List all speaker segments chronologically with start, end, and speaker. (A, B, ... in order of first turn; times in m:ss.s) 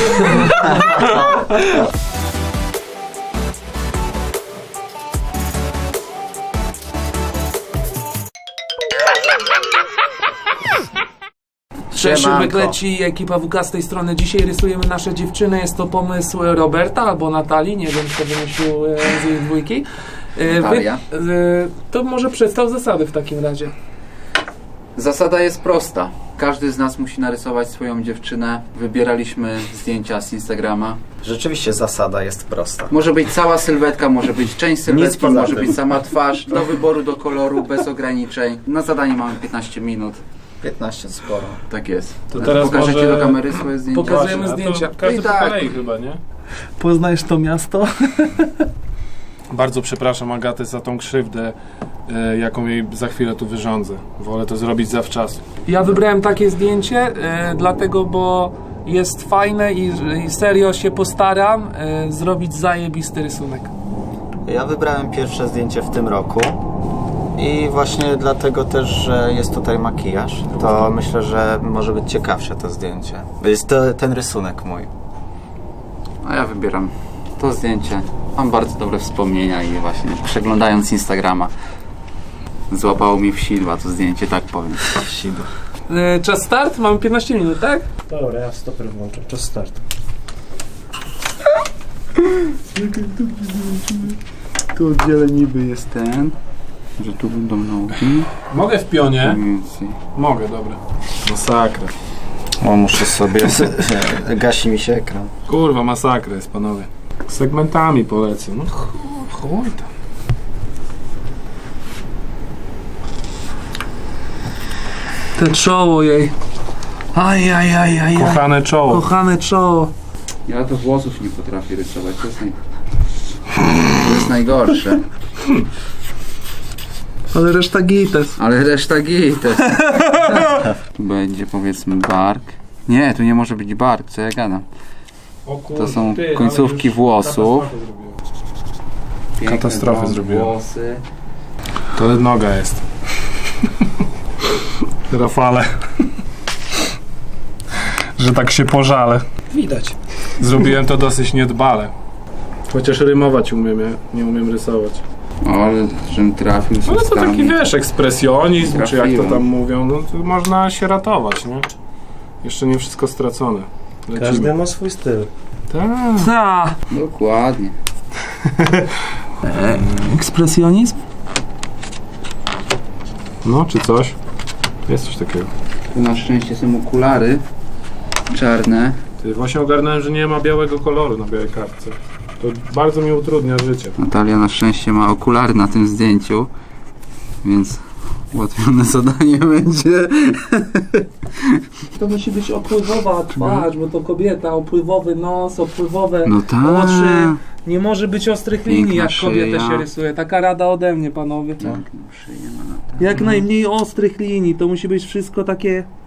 0:00.2-0:01.5 A
0:11.9-0:23.7 A
0:12.0-0:12.8 B
0:20.4-0:21.0 B
0:25.0-0:31.0 B
0:31.2-0:32.9 C
0:32.9-0:40.2 B
0:34.9-0:35.8 C
0:40.6-0:41.6 C
0:41.7-0:44.4 B
0:42.3-0:46.2 D
0:43.9-0:45.1 A
0:45.0-0:45.6 B
0:46.8-0:48.7 A
0:49.5-0:51.6 D
0:52.1-0:55.4 D
0:55.7-1:03.7 A
1:04.5-1:06.6 C
1:07.4-1:14.9 C
1:16.2-1:21.5 B
1:22.7-1:25.0 B
1:24.9-1:25.5 C
1:25.9-1:27.8 A
1:28.1-1:29.8 E
1:32.8-1:34.1 B
1:34.7-1:36.4 B
1:37.0-1:38.3 B
1:38.5-1:39.4 D
1:39.1-1:40.0 B
1:40.2-1:41.9 D
1:42.6-1:45.3 C
1:45.5-1:49.9 D
1:55.4-1:56.3 A
1:57.2-1:59.9 A
1:58.2-1:59.0 D
2:00.5-2:02.6 B
2:03.8-2:05.0 B
2:07.3-2:08.4 A
2:08.4-2:09.8 B
2:09.7-2:10.6 A
2:10.4-2:14.6 B
2:15.5-2:18.2 D
2:15.8-2:17.7 B
2:19.4-2:21.0 B
2:19.4-2:20.6 D
2:21.9-2:22.8 D
2:25.1-2:26.0 D
2:28.2-2:29.2 D
2:30.4-2:31.9 D
2:32.7-2:35.0 D
2:35.4-2:37.6 B
2:36.8-2:41.7 D
2:38.6-2:39.4 B
2:42.4-2:44.6 D
2:44.1-2:45.3 E
2:45.7-2:46.3 D
2:46.2-2:46.8 A
2:46.9-2:47.8 B
2:48.5-2:48.9 D
2:49.4-2:51.0 A
2:53.4-2:54.2 D
2:54.9-2:55.5 D
2:55.9-2:57.4 B
2:58.3-2:59.0 B
2:59.2-3:04.0 D
3:04.0-3:06.5 B
3:07.4-3:11.1 B
3:11.9-3:21.6 A
3:13.4-3:13.7 B
3:16.2-3:17.4 B
3:18.7-3:19.9 B
3:21.6-3:23.3 B
3:23.0-3:25.9 A